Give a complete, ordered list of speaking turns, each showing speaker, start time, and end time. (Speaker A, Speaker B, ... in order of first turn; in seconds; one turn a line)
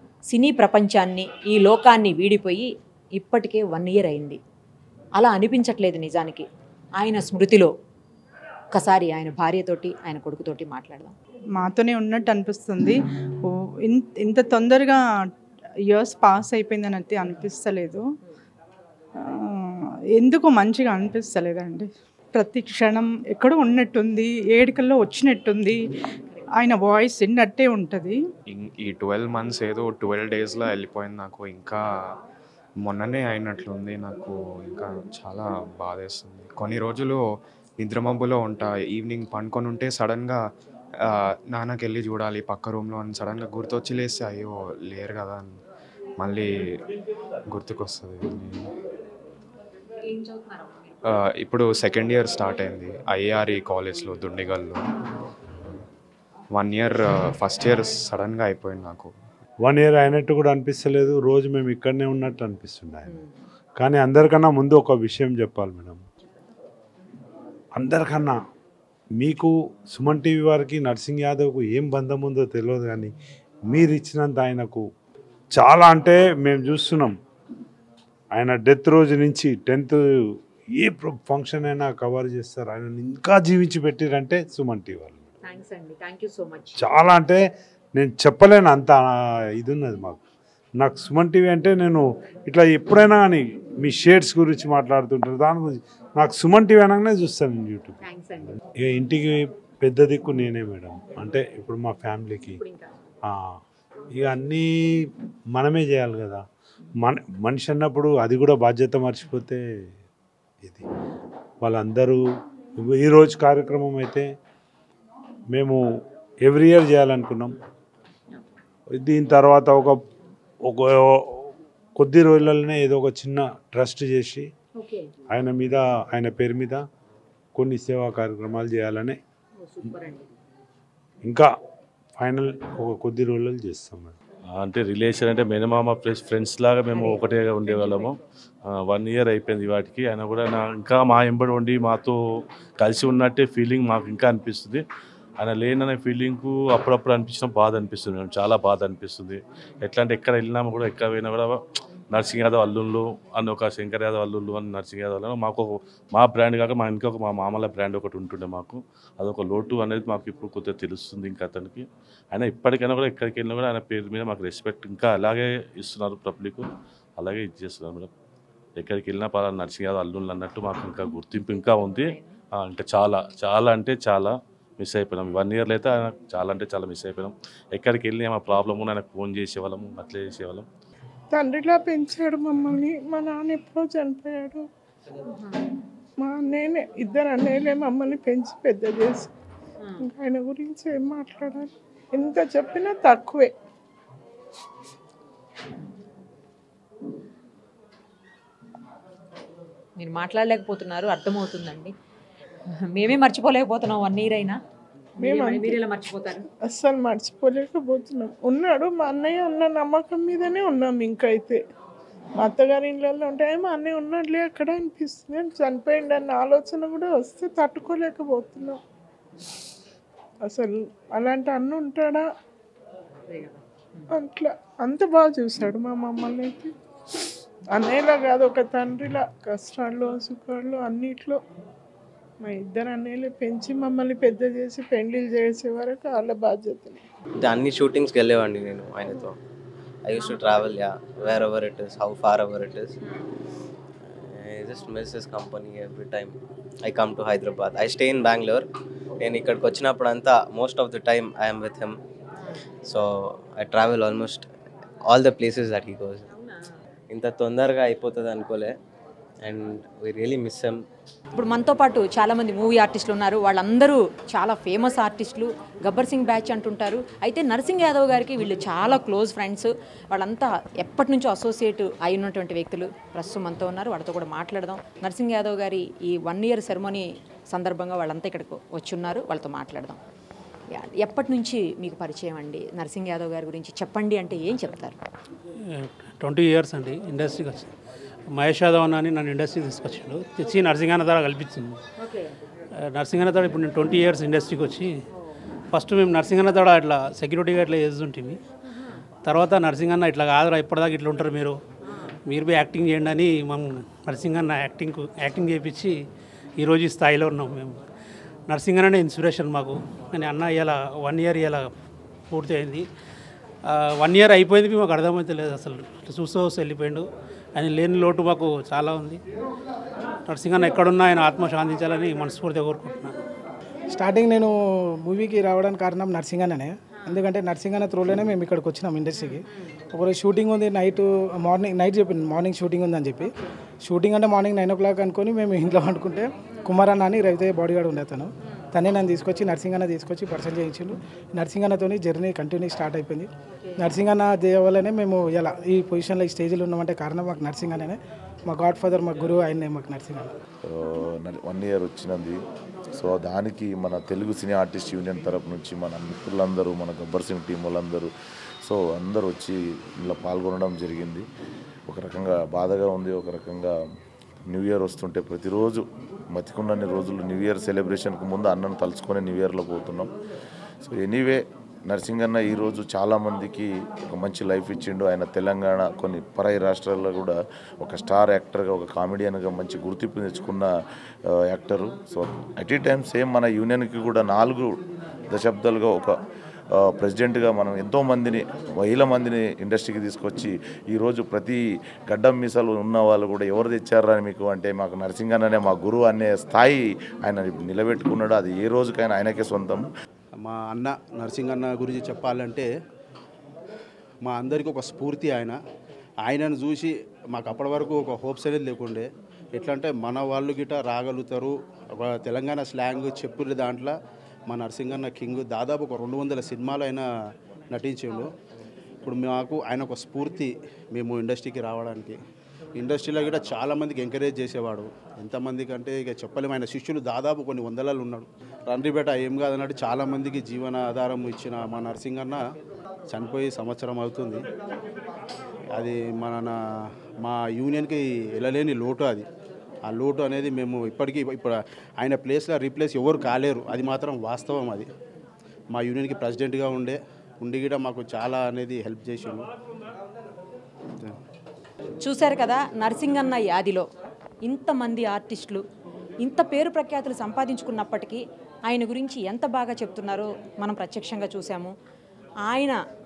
Speaker A: 0.3-4.4
Speaker A: 5.2-6.4
Speaker A: 7.0-7.7
Speaker A: 8.7-11.1
Speaker B: 11.6-13.0
Speaker B: 13.9-15.0
Speaker B: 15.9-18.0
Speaker B: 20.2-25.8
Speaker B: 26.6-28.2
Speaker C: 28.5-32.1
Speaker C: 32.8-40.5
Speaker C: 41.0-45.6
Speaker C: 46.2-46.8
Speaker C: 47.5-48.7
Speaker C: 51.0-54.8
Speaker C: 56.5-59.1
Speaker D: 59.6-63.2
Speaker D: 63.8-66.0
Speaker D: 67.8-68.4
Speaker D: 69.2-73.1
Speaker D: 73.7-74.8
Speaker D: 75.5-77.2
Speaker D: 78.4-80.0
Speaker D: 80.8-85.2
Speaker A: 85.4-86.8
Speaker D: 86.8-87.4
Speaker D: 88.0-89.0
Speaker D: 89.6-90.2
Speaker D: 90.8-97.9
Speaker A: 98.0-98.4
Speaker D: 98.8-102.6
Speaker D: 104.1-104.7
Speaker D: 105.5-106.4
Speaker D: 107.0-109.6
Speaker D: 111.6-112.2
Speaker D: 112.8-114.3
Speaker D: 115.5-115.8
Speaker D: 116.4-117.5
Speaker D: 118.9-120.0
Speaker D: 120.7-124.5
Speaker D: 125.3-126.8
Speaker D: 127.5-129.2
Speaker A: 129.8-130.2
Speaker D: 132.2-134.1
Speaker E: 134.5-138.2
Speaker A: 137.0-138.1
Speaker E: 138.7-142.2
Speaker E: 142.8-144.8
Speaker E: 145.4-151.6
Speaker E: 152.1-166.7
Speaker E: 167.2-168.1
Speaker E: 168.8-180.7
Speaker A: 171.7-172.2
Speaker F: 181.3-184.7
Speaker F: 186.2-189.3
Speaker F: 190.0-193.5
Speaker A: 200.0-201.9
Speaker A: 202.9-204.6
Speaker F: 205.2-205.8
Speaker A: 205.2-206.5
Speaker F: 206.7-211.6
Speaker F: 212.4-218.8
Speaker F: 220.5-222.2
Speaker F: 224.1-226.7
Speaker F: 227.7-231.4
Speaker F: 232.4-237.0
Speaker G: 237.4-239.4
Speaker G: 240.1-243.0
Speaker G: 244.3-248.7
Speaker G: 249.2-252.0
Speaker G: 252.9-254.5
Speaker G: 255.1-256.3
Speaker G: 257.1-258.7
Speaker G: 259.4-260.8
Speaker A: 261.3-280.0
Speaker A: 280.7-285.0
Speaker H: 285.8-287.7
Speaker H: 288.3-291.8
Speaker H: 292.8-295.0
Speaker H: 295.7-298.4
Speaker H: 299.2-301.6
Speaker H: 302.3-306.0
Speaker H: 306.6-307.8
Speaker H: 308.5-311.7
Speaker H: 312.3-312.9
Speaker H: 313.7-319.2
Speaker H: 320.3-323.2
Speaker I: 323.9-333.3
Speaker I: 333.8-350.3
Speaker J: 350.7-352.4
Speaker J: 352.9-358.1
Speaker J: 358.6-361.2
Speaker J: 361.9-363.8
Speaker J: 364.5-370.1
Speaker J: 370.8-380.7
Speaker J: 381.3-384.7
Speaker J: 385.3-386.1
Speaker J: 386.9-399.9
Speaker K: 400.4-402.7
Speaker K: 404.2-405.6
Speaker K: 406.2-413.9
Speaker K: 414.5-417.1
Speaker K: 417.7-418.3
Speaker K: 419.0-422.2
Speaker K: 422.8-432.4
Speaker K: 433.1-434.4
Speaker K: 435.8-436.5
Speaker K: 437.2-439.3
Speaker K: 439.9-444.9
Speaker K: 445.7-449.4
Speaker A: 452.0-453.9
Speaker A: 454.4-455.6
Speaker A: 456.2-461.7
Speaker A: 462.4-462.8